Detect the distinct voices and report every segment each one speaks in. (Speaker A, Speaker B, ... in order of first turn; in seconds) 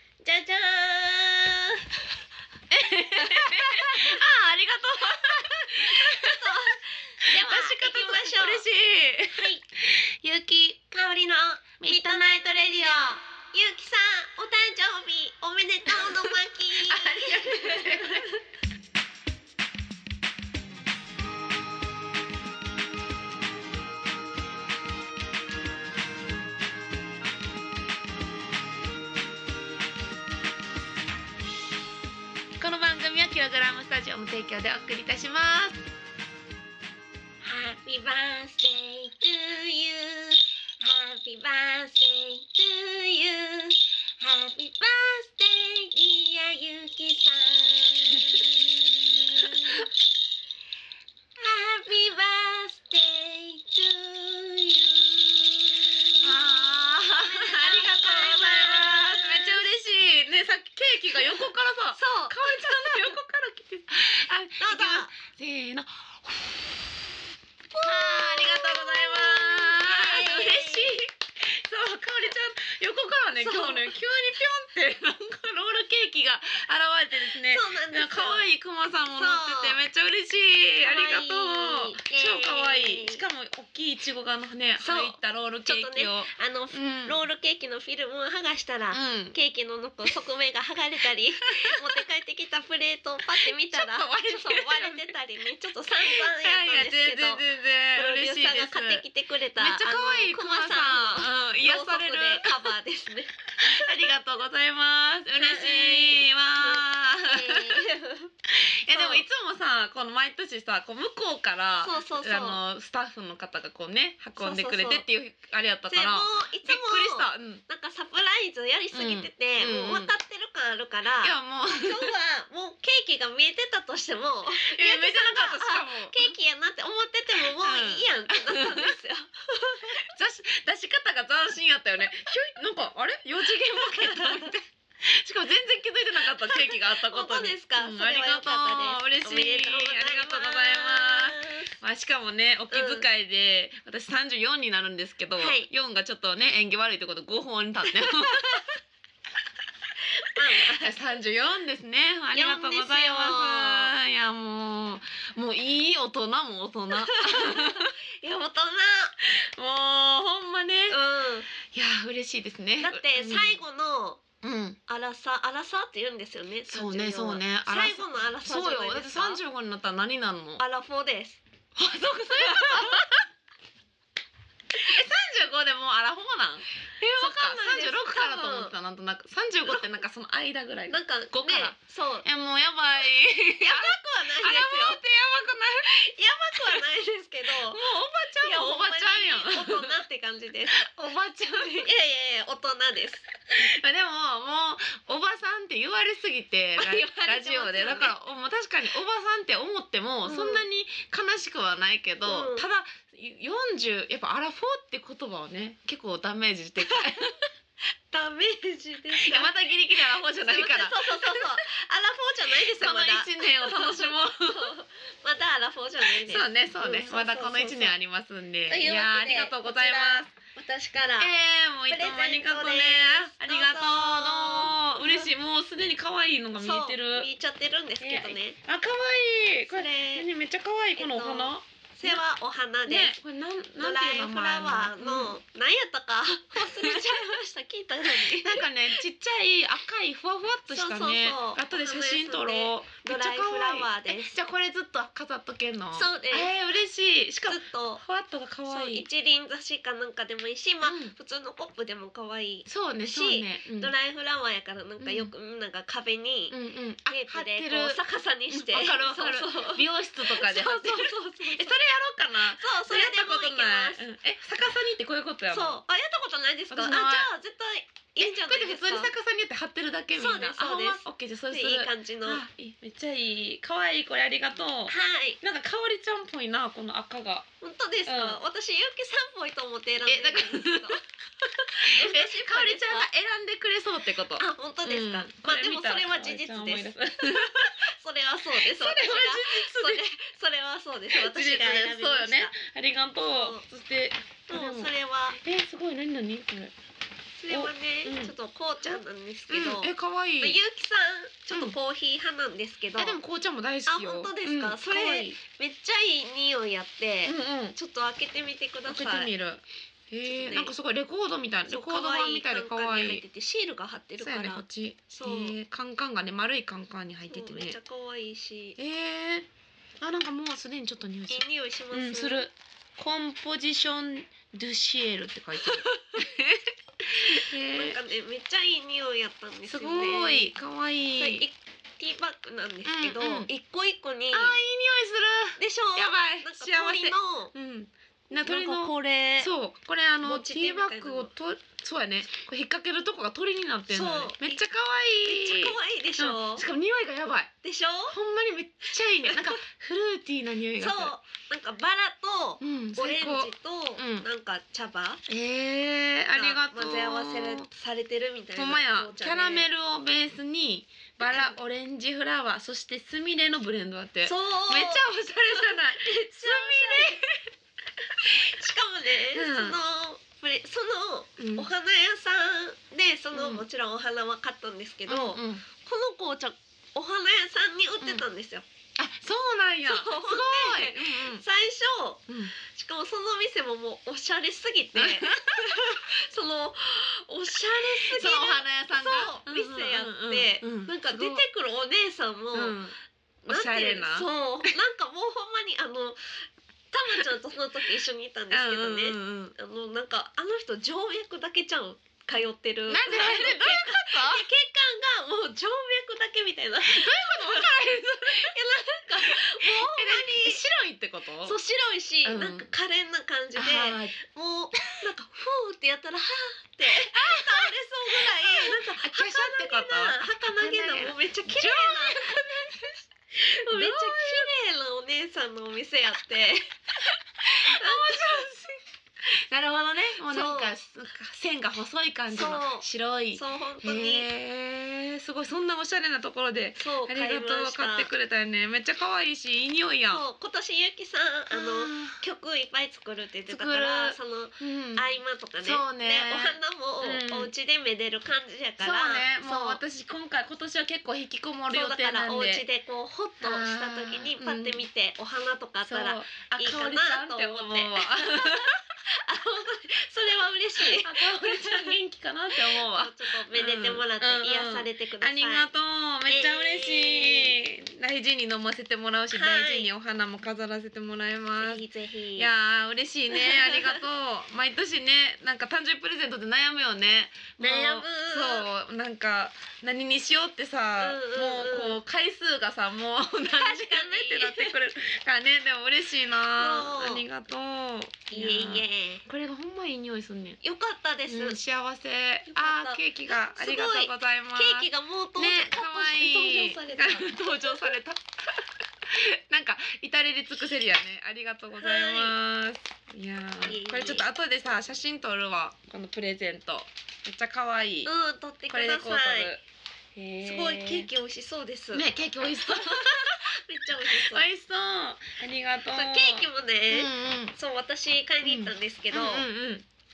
Speaker A: 0.2-1.8, 3.5-4.2, 5.8-8.7, 9.3-9.6, 10.9-18.4, 37.4-49.9, 51.4-59.6, 61.1-63.1, 64.6-65.1, 67.7-71.0, 73.3-73.9, 77.4-78.5, 79.2-79.8, 80.8-83.2, 84.8-97.4, 97.9-103.9, 105.4-108.3, 108.9-109.2, 111.8-112.6, 114.4-115.0, 115.9-130.1, 133.7-134.5, 136.3-141.7, 142.7-143.0, 145.4-145.7, 148.0-148.7, 150.2-150.9, 152.3-153.9, 156.9-159.2, 160.9-161.5, 162.8-164.2, 164.9-169.4, 170.6-171.4, 172.3-173.1, 177.0-178.7, 180.9-182.2, 183.6-185.0, 185.8-187.8, 188.4-190.8, 191.5-193.2, 196.8-198.1, 200.2-200.6, 202.2-202.7, 206.8-207.4, 208.1-209.5, 210.2-217.9, 218.7-221.3, 221.9-225.3, 226.6-228.6, 229.7-230.3, 231.0-233.1, 233.8-238.9, 240.7-244.3, 245.9-246.5, 247.5-248.0, 248.7-256.6, 257.1-261.7, 262.6-264.0, 265.5-269.1, 270.1-272.4, 274.9-275.4, 277.6-283.1, 284.4-292.5, 293.3-293.6, 294.5-295.4, 297.4-303.2, 303.9-309.3, 310.3-310.7, 311.7-315.6, 317.3-318.8, 321.3-322.4, 325.6-326.2, 327.2-330.5, 331.1-334.6, 335.6-337.5, 338.3-339.5, 340.2-341.3, 343.9-344.6, 345.2-346.6, 347.6-348.2, 349.3-349.6, 350.8-355.2, 356.3-359.7, 361.2-361.5, 364.2-367.2, 368.2-378.6, 379.9-392.8, 393.4-410.6, 411.4-422.2, 423.4-428.4, 430.3-430.7, 432.3-434.3, 436.8-438.1, 440.1-449.8, 451.7-461.9, 462.6-465.7, 466.3-467.5, 469.3-469.9, 471.6-472.5, 473.3-474.0, 477.6-478.7, 481.0-482.0, 483.5-484.7, 486.5-487.2, 488.3-489.3, 490.6-491.6, 492.5-497.9, 501.8-502.3, 503.6-504.3, 508.0-509.5, 510.4-512.1, 512.6-514.5, 515.9-519.5
Speaker B: 2.7-6.6, 7.3-10.9, 11.8-13.2, 16.0-16.3, 16.9-18.3, 32.6-35.8, 56.2-66.6, 67.8-87.2, 88.9-89.3, 91.6-92.0, 93.4-95.1, 96.0-99.0, 99.5-102.7, 103.6-107.8, 108.5-117.6, 118.9-120.1, 121.2-122.1, 124.6-126.3, 127.4-128.9, 130.0-148.7, 150.6-157.9, 159.2-161.0, 161.5-163.6, 164.4-164.8, 166.7-170.6, 171.7-173.2, 174.8-185.9, 187.7-190.0, 190.7-191.8, 193.5-207.3, 209.2-211.6, 212.7-214.7, 216.1-220.3, 221.2-227.3, 228.0-232.2, 232.8-235.4, 236.6-237.2, 238.2-249.1, 250.8-251.1, 252.7-253.9, 255.0-255.3, 256.5-265.8, 266.7-267.3, 268.2-277.5, 278.0-278.4, 280.1-281.0, 281.8-287.9, 288.5-290.0, 291.1-296.7, 297.5-298.3, 298.9-300.6, 303.0-305.4, 307.2-307.8, 308.9-313.2, 314.2-317.8, 318.8-319.5, 320.0-328.0, 329.7-331.4, 332.9-333.5, 334.3-347.5, 348.1-351.1, 352.6-354.2, 355.3-357.7, 358.5-367.2, 368.1-368.5, 369.3-369.8, 371.4-371.7, 373.3-373.6, 375.1-375.6, 379.0-381.4, 382.3-382.5, 384.9-386.0, 388.0-391.4, 392.5-392.9, 393.5-394.3, 398.5-399.5, 402.9-404.5, 406.8-408.6, 409.2-411.6, 412.2-412.7, 413.6-414.2, 417.1-423.0, 423.7-424.5, 427.4-440.2, 441.5-442.2, 443.5-445.0, 445.6-447.5, 448.8-452.6, 453.4-454.8, 455.9-458.8, 460.8-471.8, 472.4-490.6, 491.3-508.1, 508.7-509.6, 510.1-511.1, 511.9-513.5, 514.0-517.5, 518.4-519.9